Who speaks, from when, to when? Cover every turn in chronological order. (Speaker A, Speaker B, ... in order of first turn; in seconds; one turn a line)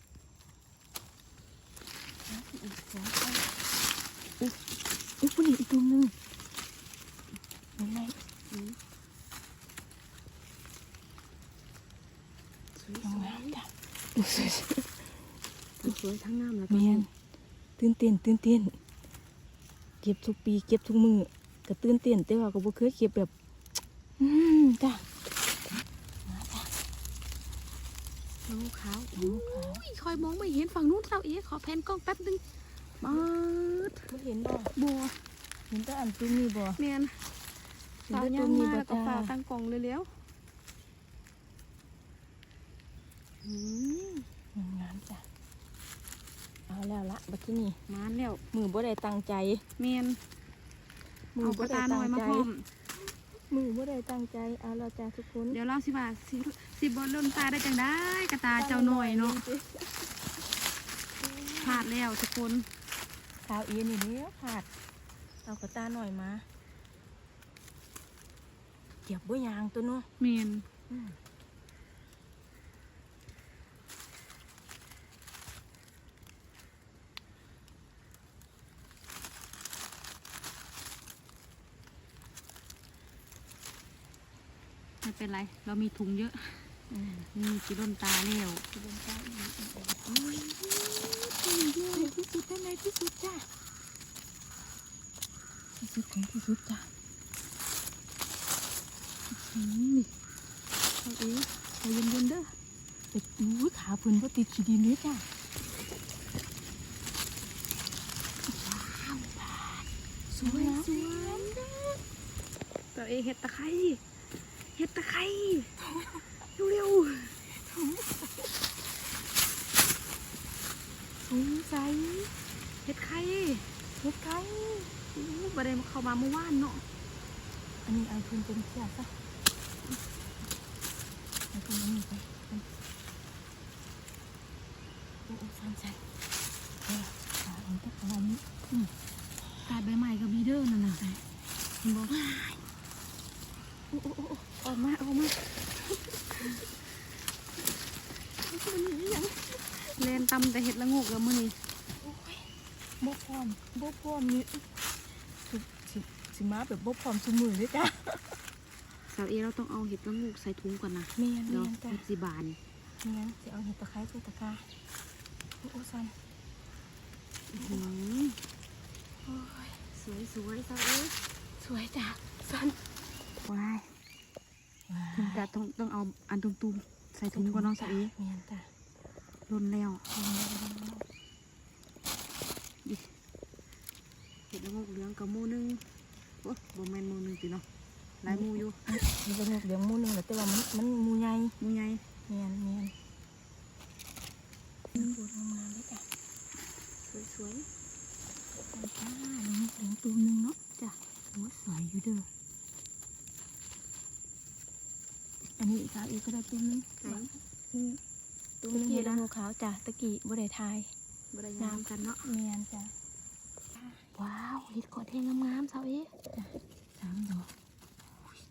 Speaker A: 2.5-3.4
Speaker B: 5.2-6.1
Speaker B: 7.8-8.2
Speaker A: 8.5-8.8
Speaker A: 12.7-13.6
Speaker B: 13.0-15.1
Speaker A: 15.8-17.1
Speaker B: 16.7-17.1
Speaker B: 17.8-18.8
Speaker B: 20.0-23.3
Speaker B: 24.2-25.1
Speaker B: 26.2-26.7
Speaker A: 28.4-32.4
Speaker B: 29.1-29.8
Speaker A: 33.0-34.1
Speaker B: 34.1-34.7
Speaker A: 34.7-35.2
Speaker B: 35.7-36.8
Speaker A: 36.8-37.2
Speaker A: 38.1-40.1
Speaker B: 38.1-39.3
Speaker A: 43.4-44.3
Speaker B: 44.5-45.2
Speaker B: 46.7-47.8
Speaker A: 47.9-48.4
Speaker B: 48.5-49.6
Speaker A: 49.8-50.2
Speaker B: 51.3-52.5
Speaker A: 51.4-52.6
Speaker B: 53.5-55.6
Speaker A: 55.5-59.4
Speaker B: 58.5-60.2
Speaker B: 61.2-61.9
Speaker A: 61.6-62.7
Speaker B: 63.4-64.7
Speaker B: 65.4-66.4
Speaker B: 69.0-70.1
Speaker A: 70.2-70.7
Speaker B: 70.9-71.2
Speaker A: 85.0-86.7
Speaker B: 86.9-87.3
Speaker A: 87.3-88.6
Speaker B: 88.7-90.2
Speaker A: 90.1-93.3
Speaker B: 95.8-96.9
Speaker A: 99.3-100.1
Speaker A: 101.0-102.5
Speaker B: 103.1-105.2
Speaker B: 108.5-111.6
Speaker A: 110.4-112.0
Speaker A: 112.9-114.0
Speaker A: 114.7-115.7
Speaker B: 115.8-116.2
Speaker A: 116.5-117.4
Speaker B: 117.5-118.7
Speaker B: 121.3-122.3
Speaker A: 122.8-123.7
Speaker B: 124.0-124.9
Speaker A: 125.1-126.8
Speaker B: 127.8-129.1
Speaker B: 131.5-132.7
Speaker B: 135.2-136.0
Speaker B: 136.8-138.4
Speaker A: 139.6-141.1
Speaker A: 141.8-142.2
Speaker B: 142.1-142.6
Speaker B: 143.9-144.7
Speaker A: 144.6-145.5
Speaker A: 146.3-146.6
Speaker B: 148.4-150.0
Speaker A: 150.0-151.6
Speaker B: 152.0-154.7
Speaker B: 155.4-158.4
Speaker A: 159.1-162.6
Speaker B: 161.2-162.0
Speaker B: 163.0-164.7
Speaker B: 165.6-166.2
Speaker A: 167.5-168.4
Speaker B: 167.6-167.9
Speaker B: 169.2-169.8
Speaker A: 169.9-171.2
Speaker B: 171.6-172.8
Speaker A: 173.4-173.9
Speaker B: 174.9-175.4
Speaker A: 175.1-178.1
Speaker B: 177.3-178.7
Speaker A: 179.5-180.0
Speaker B: 180.1-181.0
Speaker A: 182.8-183.1
Speaker A: 184.5-185.8
Speaker A: 186.4-187.6
Speaker A: 188.2-188.8
Speaker B: 188.3-191.5
Speaker A: 191.6-192.0
Speaker B: 192.3-192.9
Speaker B: 194.9-196.0
Speaker A: 197.0-197.7
Speaker B: 198.7-200.6
Speaker B: 201.3-202.3
Speaker B: 205.6-207.3
Speaker A: 207.0-208.0
Speaker A: 208.6-209.3
Speaker B: 208.7-210.9
Speaker A: 211.3-212.2
Speaker B: 211.6-212.9
Speaker A: 214.1-216.1
Speaker B: 216.3-217.5